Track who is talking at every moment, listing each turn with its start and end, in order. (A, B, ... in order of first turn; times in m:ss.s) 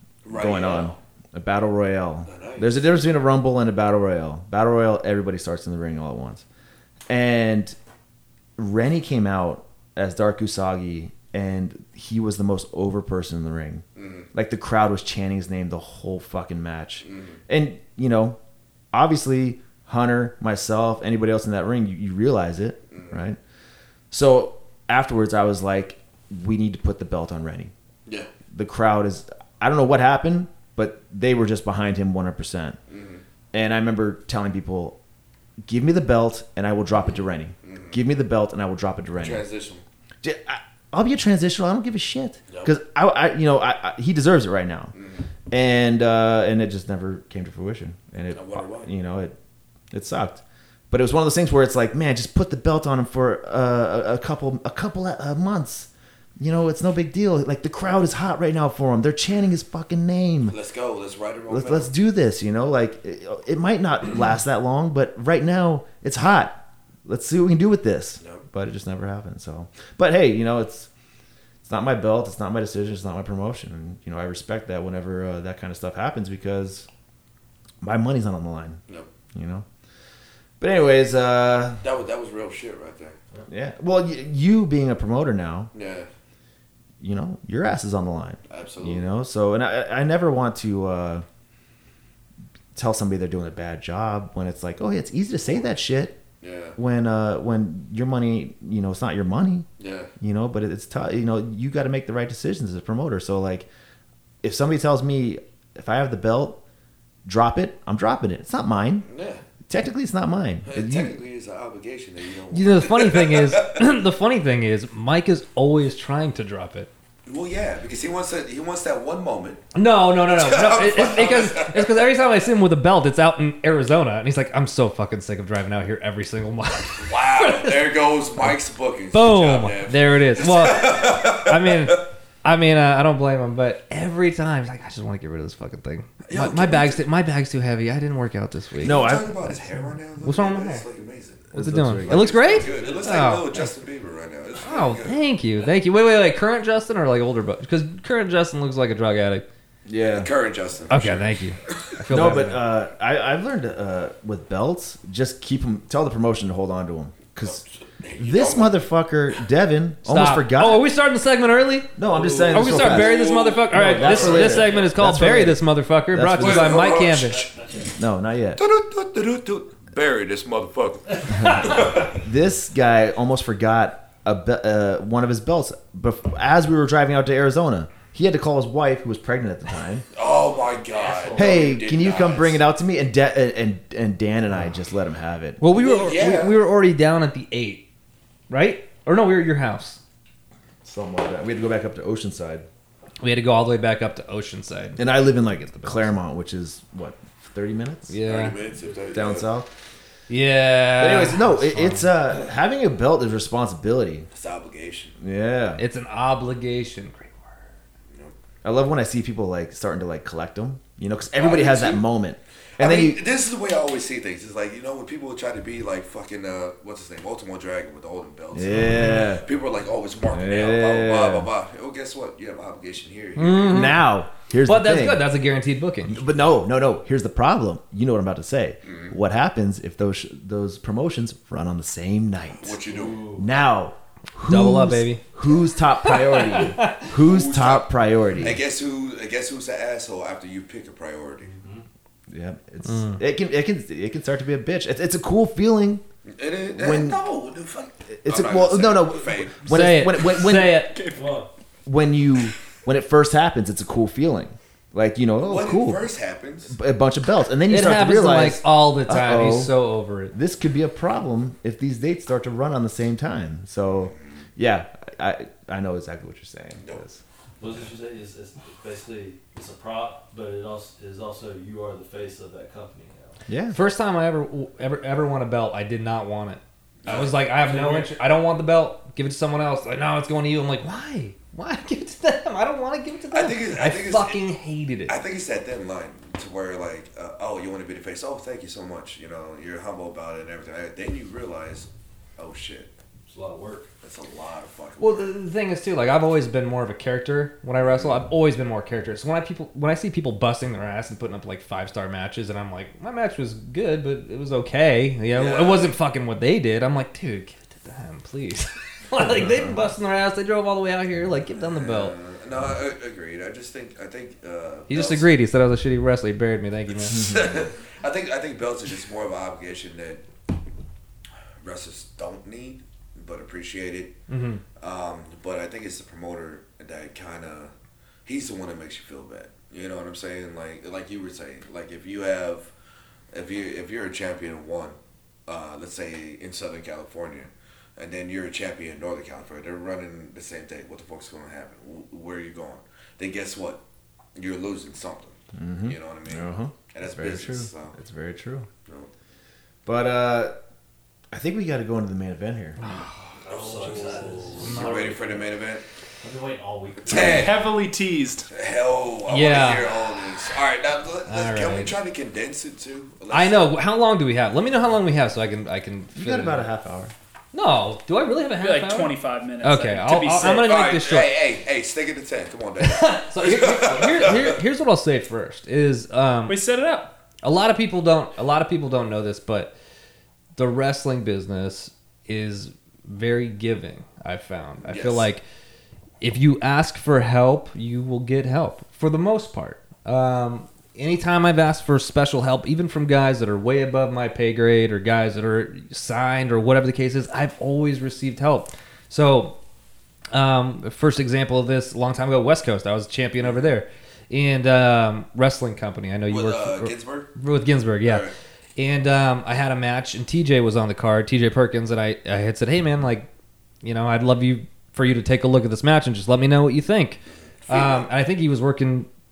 0:00.2-0:01.0 A
0:00.3-0:06.4 B
0:02.2-0:02.8 A
0:07.1-0:07.8 B
0:08.6-0:18.4 B
0:14.0-0:14.2 A
0:17.0-0:17.4 A
0:18.9-0:23.4 B
0:24.1-0:27.7 B
0:28.5-0:32.8 B
0:32.9-0:33.2 A
0:33.5-0:35.0 B
0:35.6-0:39.4 B
0:37.6-0:38.0 A
0:39.2-0:39.8 A
0:40.2-0:44.9 B
0:44.9-0:45.2 A
0:45.5-0:49.3 B
0:48.3-0:48.9 A
0:49.9-1:00.6 B
1:00.5-1:01.9 A
1:01.5-1:10.9 B
1:11.6-1:16.9 B
1:17.8-1:18.8 B
1:19.3-1:19.6 B
1:20.6-1:21.8 B
1:21.8-1:23.2 A
1:23.5-1:25.7 B
1:25.7-1:26.1 A
1:27.0-1:31.2 B
1:28.5-1:29.0 A
1:32.7-1:36.2 B
1:36.4-1:36.8 A
1:36.8-1:39.7 B
1:39.8-1:40.1 A
1:40.2-1:43.7 B
1:44.4-1:46.6 B
1:47.2-1:49.0 B
1:49.0-1:49.4 A
1:49.7-1:51.2 B
1:50.6-1:53.9 A
1:52.5-1:56.9 C
1:57.2-1:59.6 A
1:59.7-2:07.9 C
2:00.3-2:02.0 A
2:07.0-2:12.0 A
2:09.1-2:19.1 C
2:16.2-2:17.0 A
2:18.8-2:21.5 A
2:18.8-2:19.5 B
2:20.2-2:20.8 C
2:21.5-2:22.4 B
2:21.5-2:23.6 C
2:22.0-2:25.2 A
2:22.5-2:23.2 D
2:24.6-2:29.4 C
2:29.9-2:30.3 B
2:30.0-2:31.4 A
2:30.9-2:32.6 C
2:32.1-2:37.6 B
2:37.4-2:38.8 A
2:38.2-2:40.9 B
2:40.0-2:41.9 C
2:42.0-2:43.2 B
2:42.1-2:44.8 A
2:42.5-2:47.4 C
2:43.7-2:46.9 B
2:46.4-2:47.5 A
2:47.2-2:47.9 D
2:48.0-2:48.6 B
2:48.6-2:52.2 A
2:51.3-3:00.1 B
3:00.1-3:02.6 A
3:00.8-3:01.8 D
3:01.3-3:05.6 B
3:05.6-3:07.8 C
3:05.7-3:06.6 A
3:08.5-3:10.0 C
3:10.8-3:12.7 B
3:13.2-3:15.0 C
3:15.0-3:18.2 B
3:15.7-3:16.1 C
3:18.1-3:18.6 C
3:18.2-3:19.5 A
3:19.1-3:19.7 B
3:20.3-3:22.1 C
3:21.0-3:24.3 B
3:24.3-3:25.1 A
3:25.2-3:25.8 B
3:25.8-3:27.5 C
3:28.6-3:33.2 B
3:31.4-3:32.0 A
3:32.8-3:38.8 A
3:38.5-3:39.4 B
3:39.4-3:43.8 A
3:40.3-3:41.5 B
3:43.4-3:44.0 C
3:43.6-3:45.3 B
3:44.6-3:46.2 C
3:46.1-3:52.8 B
3:48.8-3:49.1 A
3:52.6-3:53.3 A
3:52.9-3:53.4 D
3:53.4-3:58.6 B
3:54.4-3:55.2 C
3:56.0-3:57.0 C
3:57.1-3:57.9 A
3:58.4-4:01.5 A
4:01.4-4:01.8 D
4:02.3-4:06.0 B
4:02.8-4:03.2 C
4:06.3-4:09.6 A
4:06.7-4:07.2 B
4:08.2-4:10.9 B
4:09.6-4:11.0 C
4:11.1-4:11.5 D
4:11.8-4:16.1 B
4:15.4-4:16.7 A
4:16.7-4:19.7 B
4:17.7-4:20.3 C
4:20.3-4:27.2 B
4:24.0-4:24.4 A
4:27.6-4:33.4 D
4:33.5-4:33.8 B
4:33.7-4:45.2 C
4:37.0-4:37.3 A
4:37.6-4:38.1 D
4:43.3-4:44.4 A
4:45.1-4:52.9 A
4:53.3-4:53.9 D
4:54.0-4:55.3 A
4:55.0-5:12.1 C
4:57.8-4:58.1 A
5:05.3-5:05.9 A
5:09.2-5:09.8 B
5:11.6-5:15.3 A
5:14.9-5:17.3 C
5:17.0-5:20.2 A
5:17.2-5:17.6 B
5:21.6-5:24.1 A
5:24.3-5:24.6 C
5:24.8-5:27.7 A
5:28.2-5:32.7 A
5:33.3-5:43.8 A
5:44.3-5:47.9 A
5:45.5-5:48.7 B
5:49.8-5:50.5 B
5:51.3-5:52.8 B
5:52.8-5:53.1 C
5:53.4-5:55.8 A
5:53.4-5:55.5 D
5:54.6-5:54.9 C
5:56.2-5:57.5 D
5:57.0-5:57.7 A
5:57.1-5:58.5 E
5:58.5-6:03.6 A
5:59.3-6:00.0 C
6:01.3-6:02.0 C
6:03.3-6:06.7 C
6:06.1-6:07.1 B
6:07.5-6:11.4 C
6:08.6-6:10.7 E
6:10.4-6:14.6 A
6:12.8-6:16.6 C
6:16.5-6:17.1 E
6:17.4-6:19.7 C
6:20.6-6:25.4 C
6:24.8-6:25.3 A
6:26.2-6:39.5 C
6:40.3-6:53.3 C
6:43.4-6:43.7 A
6:46.3-6:47.3 A
6:48.0-6:48.3 A
6:53.8-6:59.1 C
6:57.7-6:58.1 A